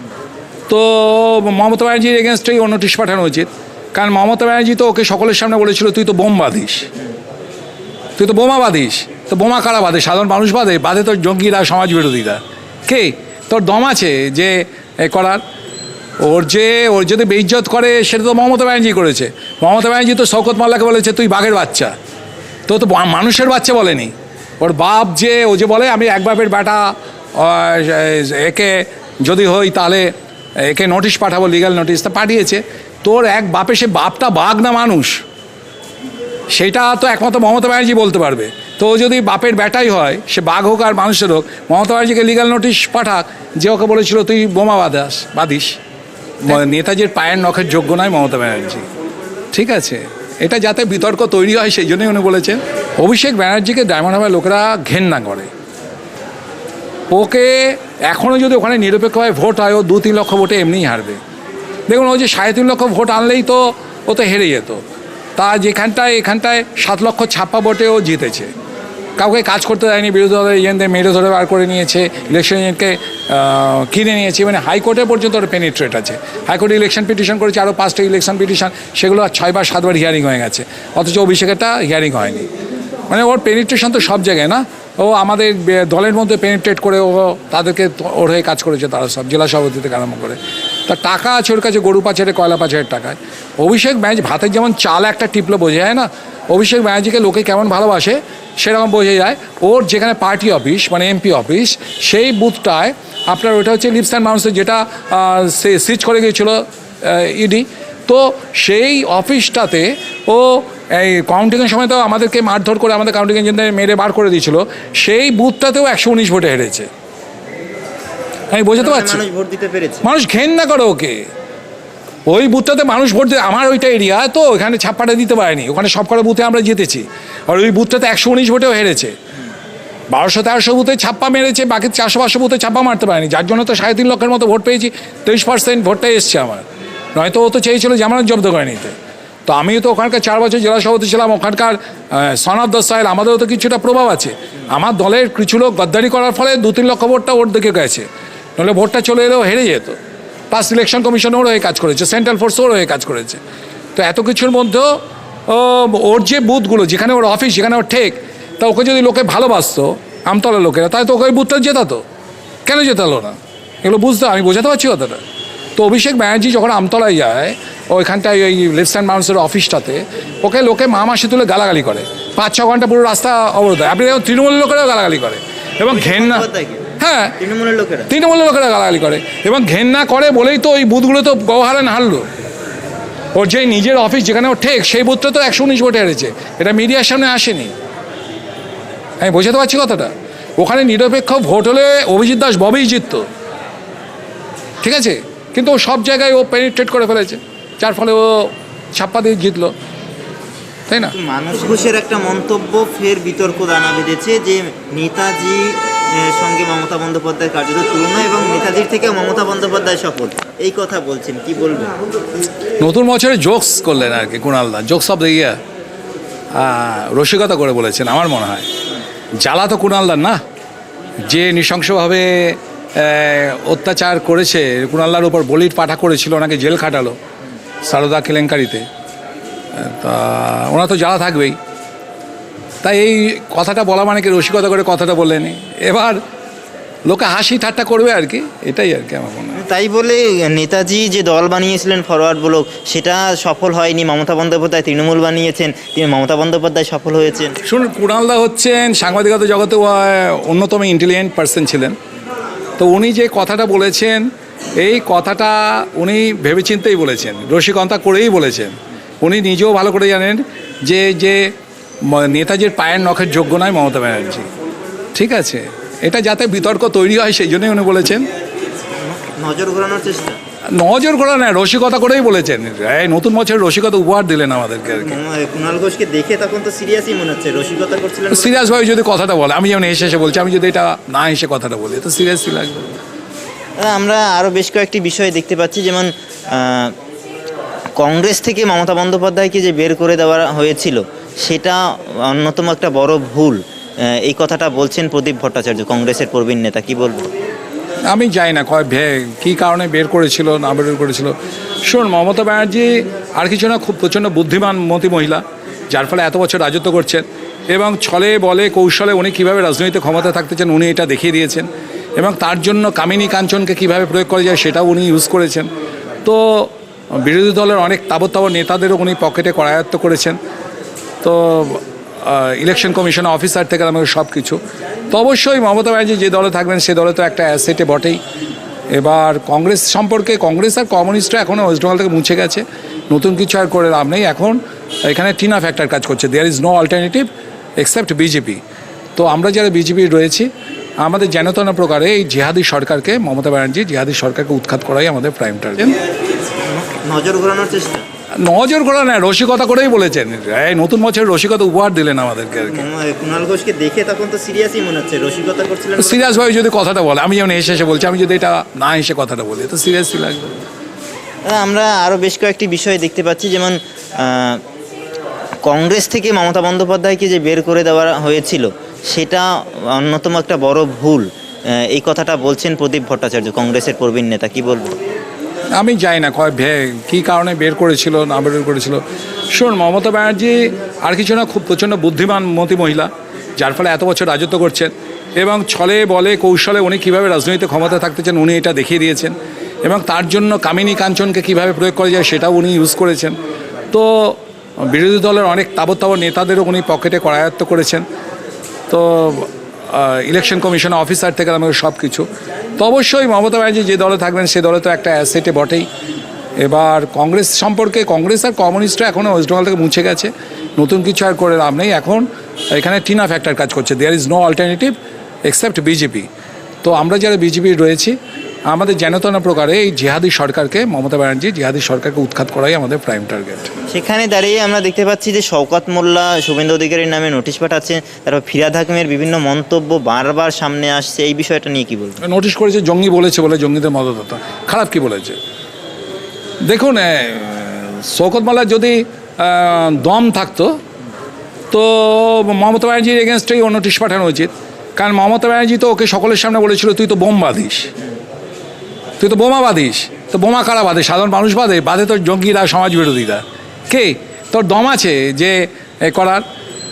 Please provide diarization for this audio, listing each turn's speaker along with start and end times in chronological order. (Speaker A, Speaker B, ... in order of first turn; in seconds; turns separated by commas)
Speaker A: 0.7-6.9, Speaker A: 8.2-15.4, Speaker A: 16.2-21.9, Speaker A: 22.7-30.1, Speaker A: 30.6-35.2, Speaker A: 36.5-45.8, Speaker A: 46.4-48.9, Speaker A: 49.5-55.5, Speaker A: 57.1-61.2, Speaker A: 61.9-64.8, Speaker A: 65.4-68.5, Speaker A: 69.2-82.5, Speaker A: 83.1-116.9, Speaker A: 118.5-119.2, Speaker B: 118.8-120.0, Speaker A: 120.0-121.2, Speaker A: 122.3-129.1, Speaker A: 130.1-136.6, Speaker A: 137.2-138.9, Speaker A: 139.5-148.1, Speaker A: 148.6-150.0, Speaker A: 150.5-153.4, Speaker A: 154.0-162.0, Speaker A: 162.7-165.2, Speaker A: 165.8-176.4, Speaker B: 175.9-176.8, Speaker A: 177.0-177.4, Speaker B: 177.4-178.1, Speaker A: 178.1-182.3, Speaker A: 183.3-187.7, Speaker A: 189.2-193.2, Speaker A: 194.8-199.7, Speaker A: 200.9-201.2, Speaker B: 201.1-211.9, Speaker A: 212.8-215.6, Speaker A: 216.5-218.7, Speaker A: 219.4-220.4, Speaker A: 221.2-227.2, Speaker A: 227.8-228.8, Speaker A: 229.8-231.6, Speaker A: 232.8-236.2, Speaker A: 237.1-239.6, Speaker B: 239.5-247.6, Speaker A: 247.6-252.0, Speaker A: 252.8-254.3, Speaker A: 254.8-261.5, Speaker A: 262.0-264.5, Speaker A: 265.1-268.3, Speaker B: 269.0-270.4, Speaker A: 270.7-275.2, Speaker B: 275.0-278.7, Speaker A: 278.3-282.9, Speaker B: 283.8-286.9, Speaker B: 288.0-297.3, Speaker A: 298.1-315.7, Speaker A: 316.2-320.4, Speaker A: 321.2-324.6, Speaker A: 325.1-328.2, Speaker A: 328.9-338.6, Speaker A: 339.2-340.5, Speaker A: 341.0-346.0, Speaker B: 346.6-348.1, Speaker A: 348.4-352.9, Speaker B: 352.7-356.2, Speaker A: 356.0-360.5, Speaker B: 361.4-364.6, Speaker B: 365.6-375.0, Speaker A: 375.8-393.4, Speaker A: 393.9-398.1, Speaker A: 398.9-402.3, Speaker A: 402.8-405.9, Speaker A: 406.6-416.3, Speaker A: 416.8-418.2, Speaker A: 418.7-423.8, Speaker B: 423.9-432.2, Speaker A: 432.2-435.4, Speaker A: 436.6-440.8, Speaker A: 441.7-447.9, Speaker A: 449.2-456.4